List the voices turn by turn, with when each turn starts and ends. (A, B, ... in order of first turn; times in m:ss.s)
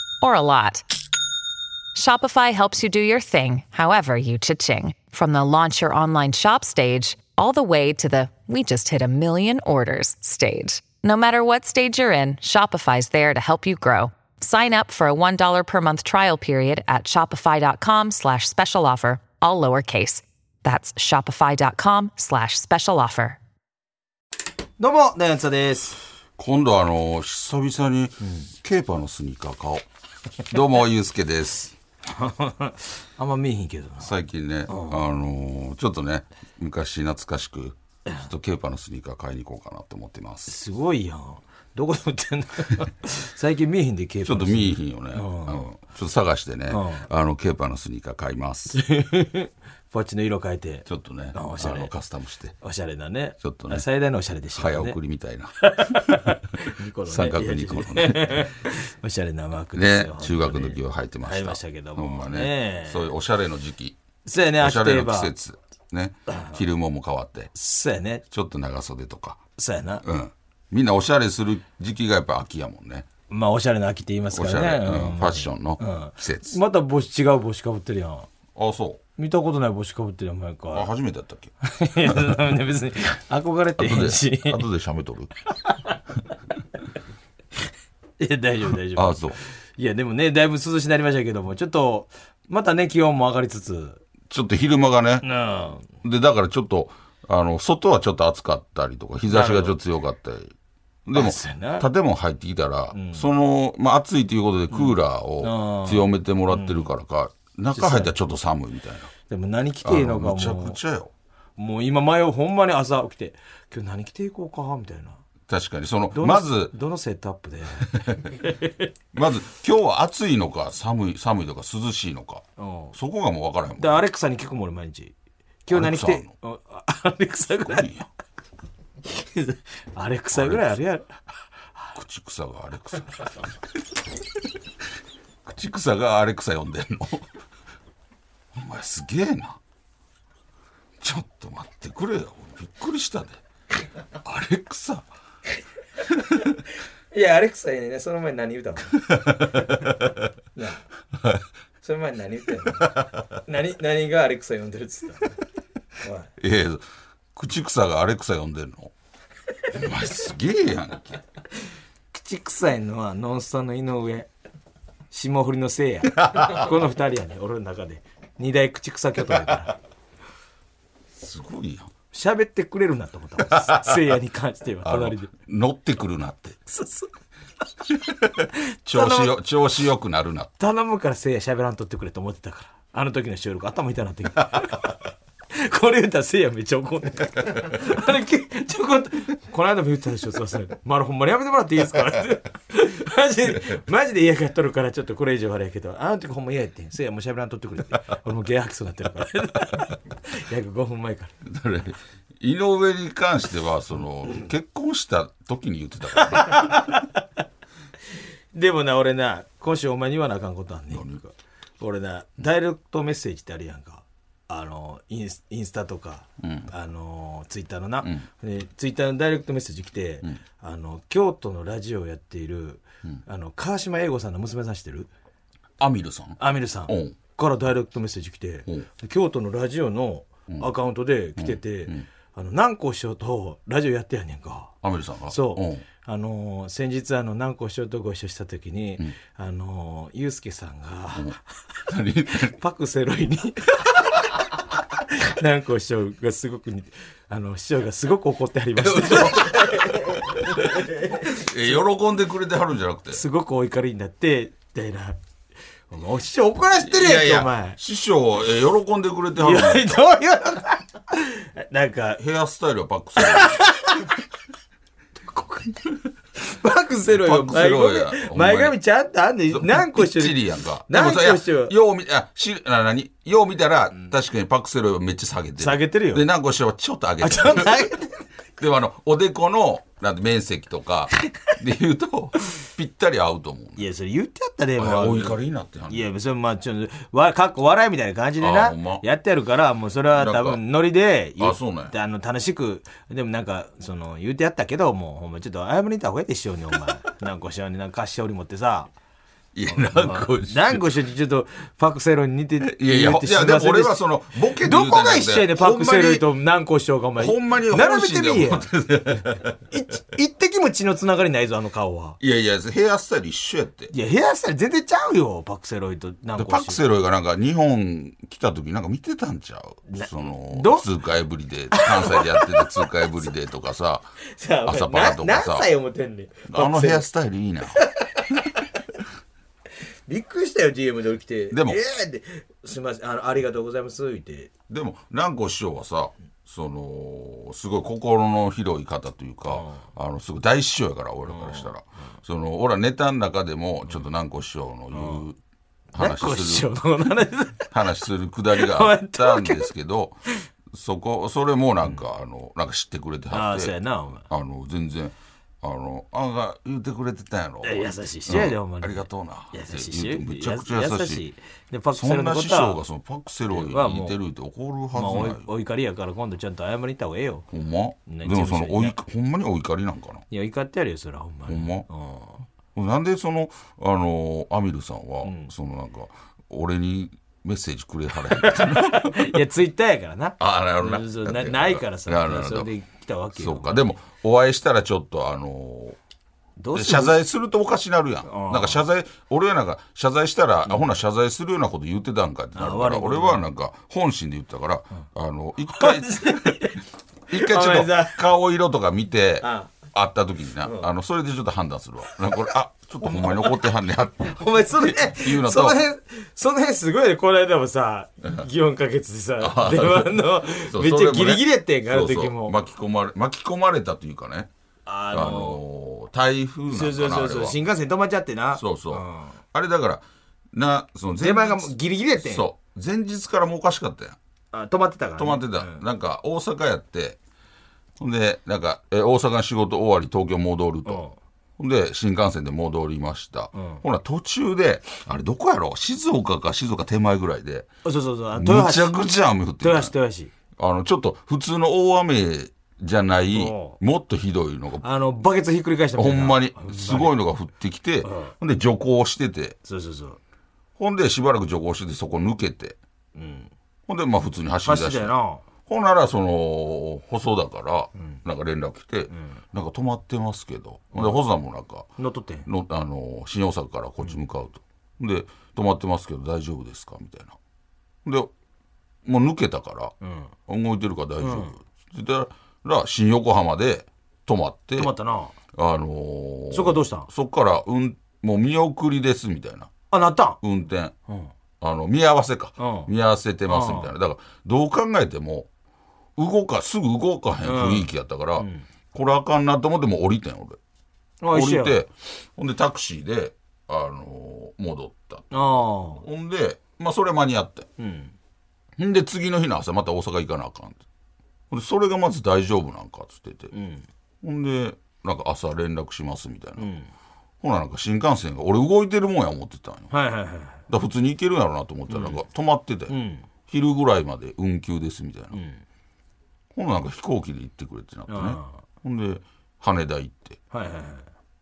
0:00.2-0:00.8 A
0:02.0-0:23.4 A
0:24.8-0:26.0 B
0:26.4-0:29.8 C
0:30.5-0:31.8 C
0:32.1-0:34.1 B
0:34.0-0:40.6 C
0:34.7-0:35.0 B
0:40.5-0:45.7 B
0:44.2-0:48.8 C
0:46.7-0:47.1 B
0:48.7-0:51.9 B
0:50.9-0:52.6 C
0:52.6-0:55.0 B
0:53.4-0:53.9 C
0:54.5-0:56.4 C
0:55.6-1:03.1 B
0:57.0-0:58.5 C
0:59.8-1:04.0 C
1:04.2-1:05.3 B
1:04.6-1:07.5 C
1:06.3-1:06.6 B
1:07.5-1:08.2 B
1:08.3-1:09.4 C
1:09.6-1:10.0 B
1:10.0-1:13.1 C
1:13.3-1:18.3 B
1:14.3-1:16.6 C
1:18.6-1:19.0 C
1:19.2-1:20.9 B
1:20.7-1:22.4 C
1:21.6-1:24.6 B
1:23.8-1:25.3 C
1:28.2-1:34.0 B
1:28.9-1:29.4 C
1:34.3-1:35.2 C
1:35.2-1:35.9 B
1:36.0-1:40.5 C
1:39.3-1:39.8 B
1:41.1-1:49.1 C
1:41.1-1:41.9 B
1:42.9-1:43.3 B
1:44.7-1:46.9 B
1:47.7-1:48.2 B
1:49.3-1:50.8 B
1:49.8-1:51.1 C
1:51.6-1:55.2 B
1:55.5-1:56.7 C
1:56.1-1:58.9 B
1:57.9-1:58.4 C
1:59.1-2:04.0 C
2:02.6-2:02.9 B
2:03.8-2:05.1 B
2:05.7-2:07.9 B
2:05.7-2:06.3 C
2:07.6-2:08.1 C
2:09.1-2:11.2 B
2:10.3-2:10.7 C
2:12.0-2:13.4 C
2:15.4-2:17.3 C
2:18.5-2:19.6 C
2:21.0-2:23.4 C
2:24.2-2:25.1 C
2:26.1-2:26.6 C
2:27.1-2:29.0 B
2:29.1-2:30.2 C
2:30.6-2:30.8 B
2:31.8-2:35.4 B
2:36.0-2:36.3 B
2:36.4-2:36.8 C
2:37.4-2:38.9 C
2:39.7-2:41.2 C
2:42.1-2:44.3 B
2:45.1-2:49.8 B
2:46.2-2:46.6 C
2:51.2-2:51.9 C
2:52.1-2:55.3 B
2:53.4-2:54.2 C
2:54.8-2:56.6 C
2:56.7-2:57.1 B
2:57.9-3:00.5 C
2:58.9-2:59.4 B
3:00.6-3:05.0 B
3:05.5-3:21.4 B
3:21.4-3:26.9 C
3:26.2-3:27.1 B
3:28.5-3:45.1 B
3:30.9-3:31.2 C
3:36.4-3:36.7 C
3:45.8-3:47.2 C
3:46.4-3:54.8 B
3:51.4-3:52.0 C
3:54.8-3:55.8 C
3:55.3-4:01.4 B
4:01.2-4:02.6 C
4:02.3-4:11.5 B
4:08.8-4:13.2 C
4:13.1-4:15.2 B
4:15.9-4:17.8 B
4:16.8-4:20.0 C
4:19.4-4:22.2 B
4:22.2-4:23.7 C
4:23.2-4:24.2 B
4:25.3-4:25.8 B
4:26.4-4:31.7 B
4:27.1-4:28.8 C
4:29.5-4:38.0 C
4:35.6-4:36.3 B
4:37.2-4:38.2 B
4:38.6-4:43.9 C
4:43.8-4:58.9 B
4:44.8-4:46.1 C
4:48.4-4:49.0 C
4:50.1-4:50.6 C
4:51.4-4:51.9 C
4:59.5-5:01.0 C
4:59.7-5:08.7 B
5:02.6-5:06.3 C
5:07.2-5:09.5 C
5:09.3-5:12.2 B
5:12.2-5:13.9 C
5:13.9-5:16.8 B
5:16.4-5:24.1 C
5:19.9-5:20.9 B
5:21.7-5:22.8 B
5:24.3-5:27.1 B
5:24.6-5:25.7 C
5:26.5-5:27.8 C
5:27.8-5:28.3 B
5:30.1-5:34.5 B
5:31.5-5:31.8 C
5:34.7-5:45.4 C
5:39.5-5:39.9 B
5:41.3-5:41.7 B
5:44.9-5:45.2 B
5:45.9-5:46.7 C
5:46.0-5:47.7 B
5:47.7-5:53.7 C
5:48.5-5:49.7 B
5:53.3-5:54.3 B
5:54.3-6:01.2 C
5:57.6-6:02.8 B
6:01.9-6:05.5 C
6:03.5-6:04.2 B
6:04.9-6:07.5 B
6:07.5-6:10.2 C
6:08.1-6:09.0 B
6:10.3-6:12.5 B
6:11.5-6:11.9 C
6:12.8-6:19.4 C
6:15.2-6:15.5 B
6:18.3-6:23.7 B
6:20.4-6:22.7 C
6:23.4-6:26.0 C
6:26.6-6:27.2 B
6:26.7-6:36.8 C
6:28.2-6:28.8 B
6:32.6-6:33.5 B
6:35.7-6:38.2 B
6:37.3-6:45.8 C
6:39.4-6:39.7 B
6:40.6-6:40.9 B
6:43.0-6:43.7 B
6:44.2-6:52.6 B
6:49.4-6:54.5 C
6:54.9-6:55.6 B
6:55.1-6:57.6 C
6:56.7-6:59.4 B
6:58.6-7:04.2 C
7:01.2-7:02.5 B
7:04.5-7:05.8 B
7:05.2-7:07.2 C
7:08.0-7:11.0 C
7:10.8-7:11.2 B
7:11.6-7:17.7 C
7:13.5-7:13.8 B
7:17.8-7:20.3 B
7:18.3-7:19.9 C
7:20.6-7:24.9 C
7:23.3-7:23.8 B
7:24.8-7:27.1 B
7:26.0-7:29.6 C
7:28.0-7:28.4 B
7:29.6-7:30.2 B
7:30.8-7:32.8 C
7:33.2-7:33.5 B
7:33.9-7:35.1 C
7:34.6-7:35.4 B
7:35.7-7:41.9 C
7:42.0-7:42.5 B
7:42.4-7:47.4 C
7:48.0-7:48.3 C
7:49.0-7:50.0 C
7:50.0-7:50.3 B
7:50.5-7:54.9 C
7:51.2-7:51.5 B
7:54.8-7:55.4 B
7:55.5-7:59.7 C
7:56.5-7:57.1 B
7:59.9-8:00.4 B
8:00.4-8:00.9 C
8:01.6-8:05.5 C
8:02.6-8:02.9 B
8:03.5-8:03.9 B
8:06.2-8:10.6 C
8:07.4-8:08.6 B
8:11.2-8:11.8 B
8:11.3-8:17.7 C
8:15.3-8:16.0 B
8:17.8-8:18.2 B
8:18.8-8:20.8 C
8:21.5-8:23.5 C
8:23.5-8:23.9 B
8:24.2-8:26.7 C
8:26.6-8:26.9 B
8:27.4-8:29.9 C
8:29.9-8:30.6 B
8:30.7-8:33.0 C
8:31.9-8:32.2 B
8:32.9-8:33.3 B
8:33.5-8:35.4 C
8:35.3-8:35.6 B
8:36.5-8:40.4 C
8:38.1-8:38.6 B
8:40.5-8:41.1 B